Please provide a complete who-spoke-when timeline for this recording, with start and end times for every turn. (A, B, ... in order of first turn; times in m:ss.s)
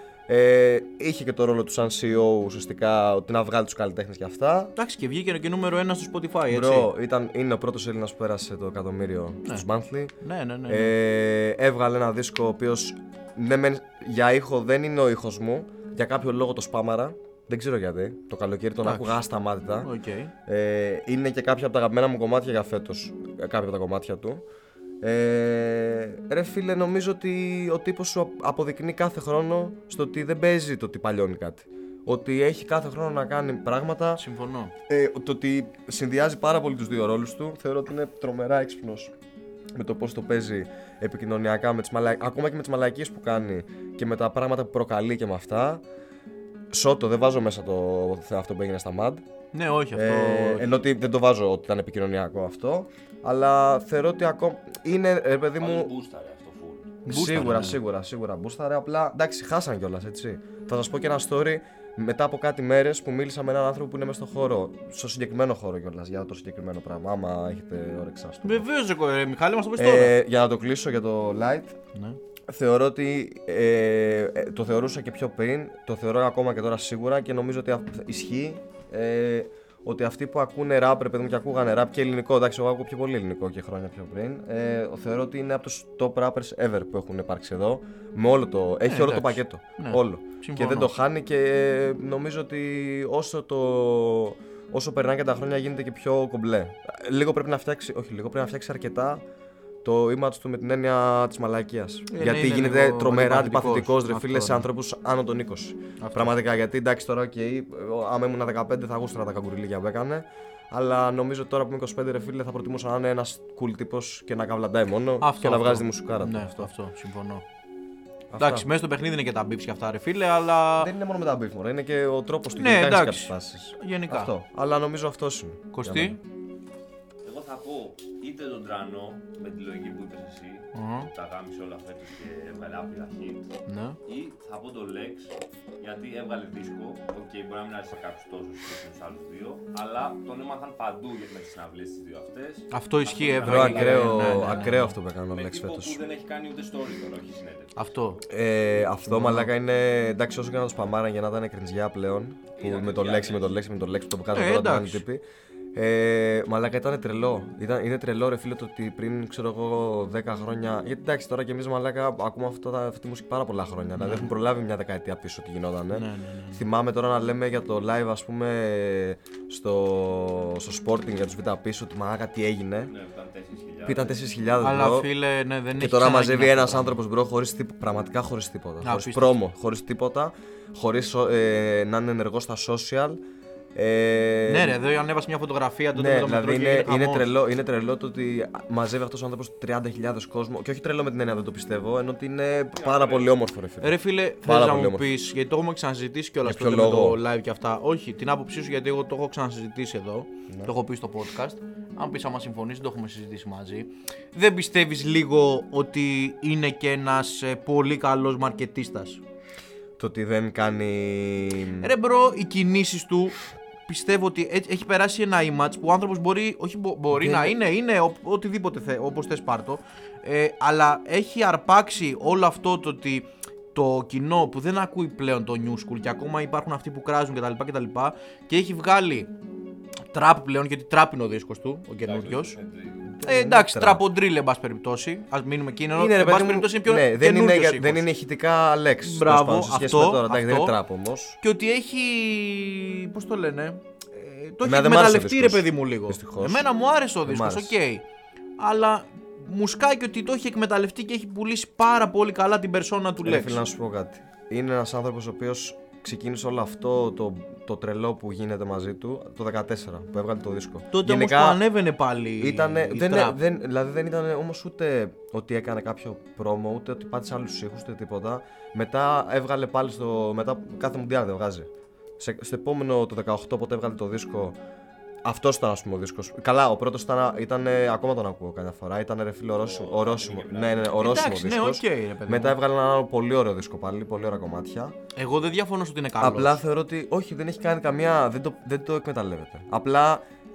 0:00.3-0:04.7 A
0:04.8-0:06.9 B
0:06.5-0:10.1 A
0:10.2-0:10.9 B
0:10.7-0:19.9 A
0:18.8-0:19.2 B
0:19.8-0:20.3 B
0:20.5-0:24.4 A
0:25.0-0:34.2 A
0:34.2-0:34.7 B
0:34.9-0:39.1 A
0:39.8-0:45.8 A
0:46.7-0:49.2 A
0:49.5-0:50.8 B
0:49.9-0:55.9 A
0:55.6-0:57.0 C
0:57.0-0:57.8 B
0:57.1-1:08.7 A
1:08.4-1:10.2 B
1:09.8-1:11.8 A
1:12.5-1:39.2 A
1:28.8-1:30.9 B
1:39.8-1:56.7 A
1:42.1-1:44.7 B
1:46.0-1:46.4 B
1:55.2-1:57.4 B
1:58.3-1:58.7 A
1:58.4-2:00.9 B
2:00.8-2:06.2 A
2:02.5-2:04.3 B
2:05.7-2:06.2 B
2:07.2-2:13.5 C
2:10.7-2:11.1 B
2:13.7-2:14.0 B
2:14.1-2:28.2 C
2:22.7-2:25.0 B
2:23.4-2:26.0 A
2:27.8-2:28.2 B
2:28.3-2:35.2 A
2:29.0-2:29.5 B
2:32.6-2:33.6 C
2:34.3-2:35.0 B
2:35.8-2:52.9 A
2:44.0-2:44.3 B
2:45.9-2:46.6 B
2:52.9-2:54.2 C
2:53.8-2:55.1 A
2:54.6-2:57.0 B
2:55.8-3:03.2 A
2:58.8-2:59.4 B
3:03.8-3:04.8 A
3:04.5-3:07.3 B
3:06.0-3:15.2 A
3:12.7-3:13.3 C
3:13.8-3:29.2 B
3:16.4-3:17.2 A
3:30.0-3:31.9 A
3:31.8-3:49.3 B
3:37.2-3:37.6 A
3:50.1-3:52.6 B
3:52.0-3:53.1 C
3:53.1-3:54.0 A
3:53.2-3:58.0 B
3:55.9-4:01.4 A
3:59.0-4:00.8 B
4:01.4-4:08.0 B
4:04.6-4:06.7 A
4:07.2-4:07.8 A
4:08.6-4:13.6 B
4:13.2-4:21.6 A
4:20.9-4:23.4 B
4:22.4-4:34.6 A
4:35.2-4:45.0 A
4:39.5-4:41.3 C
4:41.0-4:42.6 B
4:45.2-4:46.6 B
4:46.2-4:50.2 A